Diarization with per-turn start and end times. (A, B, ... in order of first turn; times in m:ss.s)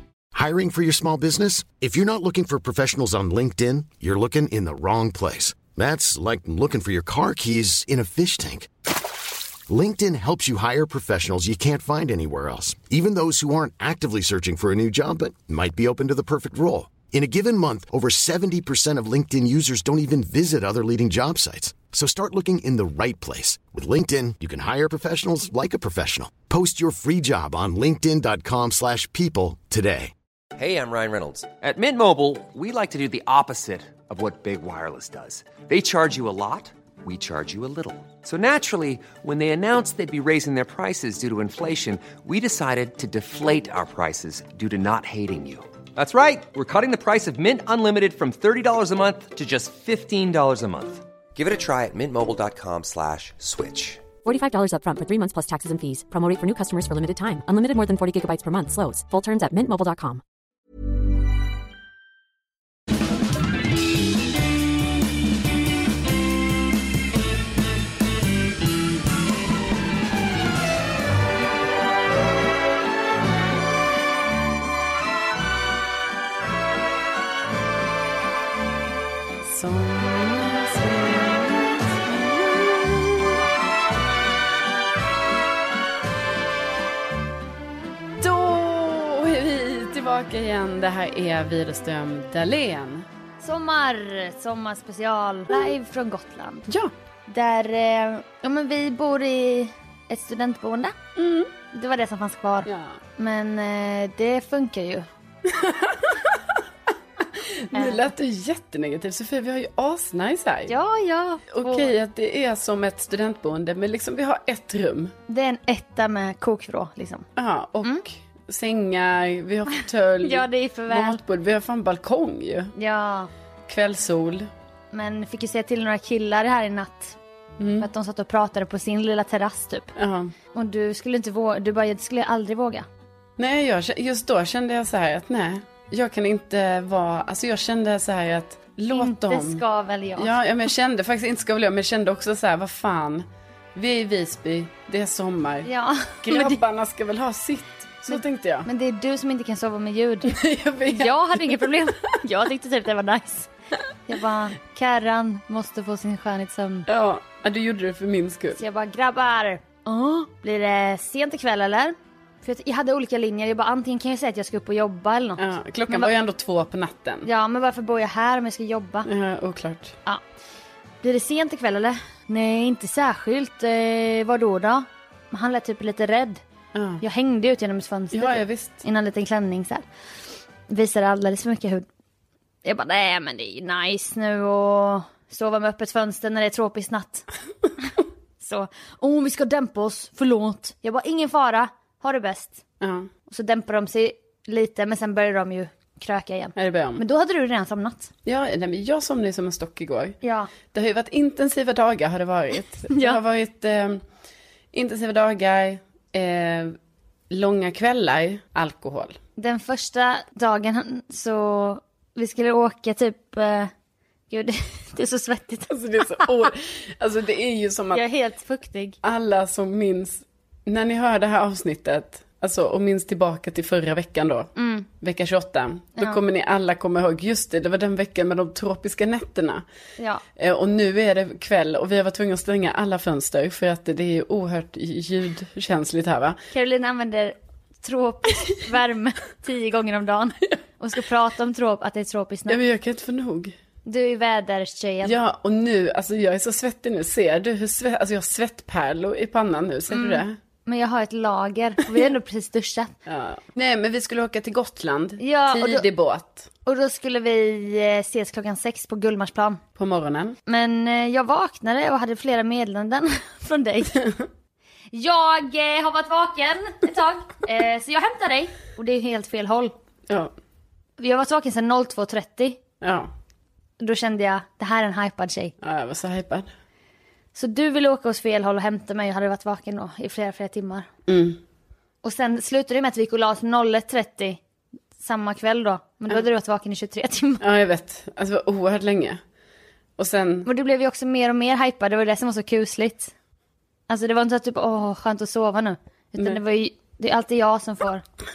0:00.3-0:08.7 A
0:09.7-0:30.1 A
0:30.6-0:54.1 B
0:54.2-1:00.2 C
1:19.4-1:23.3 D
1:28.2-1:33.1 D
1:33.4-1:36.7 E
1:37.3-1:40.9 E
1:41.2-1:41.5 D
1:41.7-1:45.1 E
1:42.7-1:43.0 D
1:45.5-1:46.4 D
1:47.4-1:50.7 D
1:47.7-1:48.0 E
1:50.7-1:51.9 E
1:51.5-1:55.1 D
1:55.3-1:57.3 E
1:57.4-2:02.7 D
2:00.2-2:01.2 E
2:02.8-2:03.3 E
2:03.7-2:04.5 D
2:04.9-2:07.2 E
2:07.6-2:07.9 D
2:07.8-2:09.9 E
2:10.0-2:10.3 D
2:10.5-2:12.9 E
2:13.4-2:19.6 D
2:18.9-2:20.4 E
2:20.2-2:25.7 D
2:25.6-2:26.6 E
2:26.2-2:28.7 D
2:28.1-2:30.3 E
2:30.3-2:31.6 D
2:30.9-2:33.5 E
2:34.1-2:36.9 E
2:36.9-2:38.6 D
2:38.6-2:46.1 E
2:45.4-2:47.3 D
2:47.2-2:49.1 E
2:49.0-2:49.9 D
2:51.0-2:56.4 E
2:56.7-2:57.0 D
2:57.0-2:59.8 E
2:58.1-2:58.8 D
3:00.7-3:01.9 E
3:02.6-3:07.3 E
3:08.4-3:12.6 E
3:12.8-3:13.1 D
3:13.3-3:18.1 E
3:16.6-3:17.0 D
3:18.2-3:20.2 D
3:20.2-3:20.5 E
3:20.7-3:24.0 D
3:22.9-3:23.2 E
3:24.7-3:26.8 D
3:27.3-3:29.2 D
3:29.4-3:33.7 E
3:34.3-3:35.7 E
3:35.7-3:38.0 D
3:37.9-3:39.0 E
3:39.0-3:49.6 D
3:44.6-3:44.9 E
3:50.4-3:56.4 D
3:56.5-4:02.6 E
4:02.5-4:03.6 D
4:03.8-4:05.2 E
4:05.0-4:10.4 D
4:09.9-4:12.9 E
4:13.1-4:16.5 D
4:15.2-4:15.9 E
4:16.6-4:19.6 E
4:19.8-4:20.4 D
4:20.5-4:24.0 E
4:24.9-4:29.7 E
4:31.0-4:32.6 E
4:32.8-4:33.1 D
4:33.8-4:35.6 E
4:35.6-4:36.5 D
4:37.4-4:40.9 E
4:41.1-4:41.4 D
4:42.0-4:44.4 E
4:45.0-4:47.4 E
4:47.4-4:49.2 D
4:50.0-4:50.5 D
4:50.4-4:53.1 E
4:53.9-4:58.0 E